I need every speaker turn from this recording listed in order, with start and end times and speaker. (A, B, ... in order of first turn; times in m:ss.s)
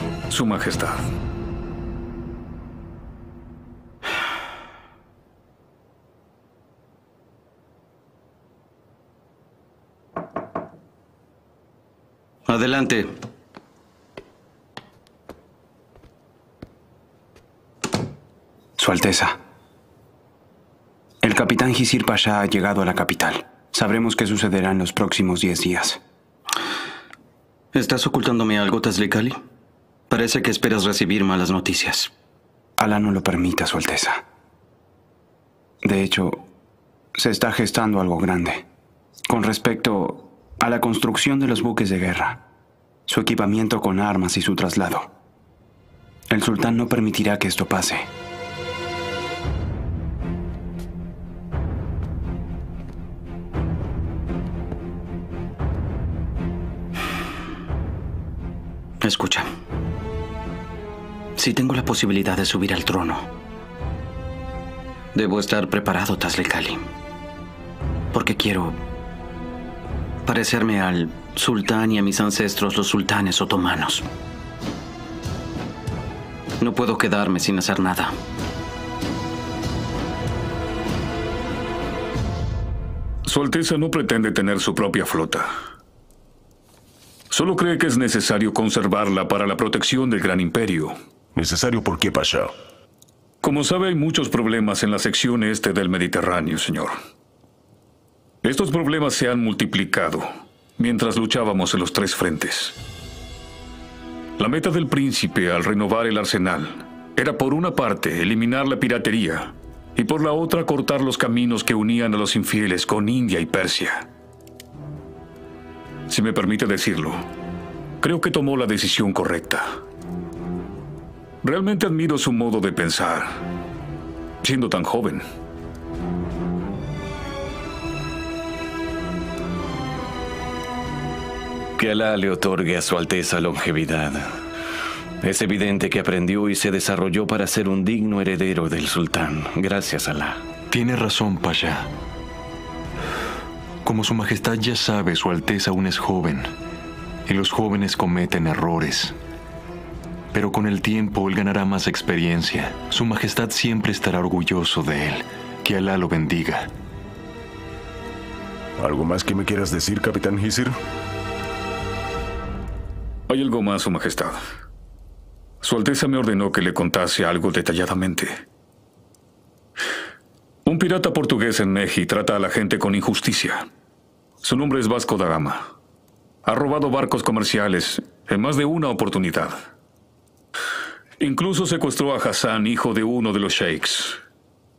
0:00.3-0:01.0 A
0:12.5-0:13.1 B
0:18.8-0:19.4 C
0:21.2-0:26.0 C
0:27.7-0:29.4 B
0:30.1-0:32.1 B
0:32.8-0:34.2 C
0:35.8-0:36.4 C
0:37.2-0:38.6 C
0:39.3-0:42.4 C
0:43.1-0:45.1 C
0:46.3-0:48.1 C
0:59.0-0:59.5 B
1:01.4-1:03.3 B
1:05.1-1:06.9 B
1:08.1-1:08.8 B
1:10.2-1:14.0 B
1:16.6-1:18.2 B
1:23.3-1:25.5 A
1:27.3-1:31.0 A
1:31.4-1:32.5 D
1:33.4-1:37.0 A
1:38.4-1:42.8 A
1:44.4-1:54.1 A
1:56.1-1:57.2 A
1:58.0-1:59.8 A
2:01.4-2:03.4 A
2:04.4-2:05.2 A
2:11.8-2:14.3 E
2:15.2-2:20.4 E
2:20.7-2:21.9 F
2:23.8-2:26.5 F
2:27.3-2:29.2 F
2:30.3-2:36.7 F
2:38.8-2:40.8 D
2:43.3-2:44.4 A
2:45.6-2:48.4 A
2:50.7-2:53.7 A
2:54.4-2:55.7 A
2:56.4-2:59.6 A
3:01.2-3:04.2 A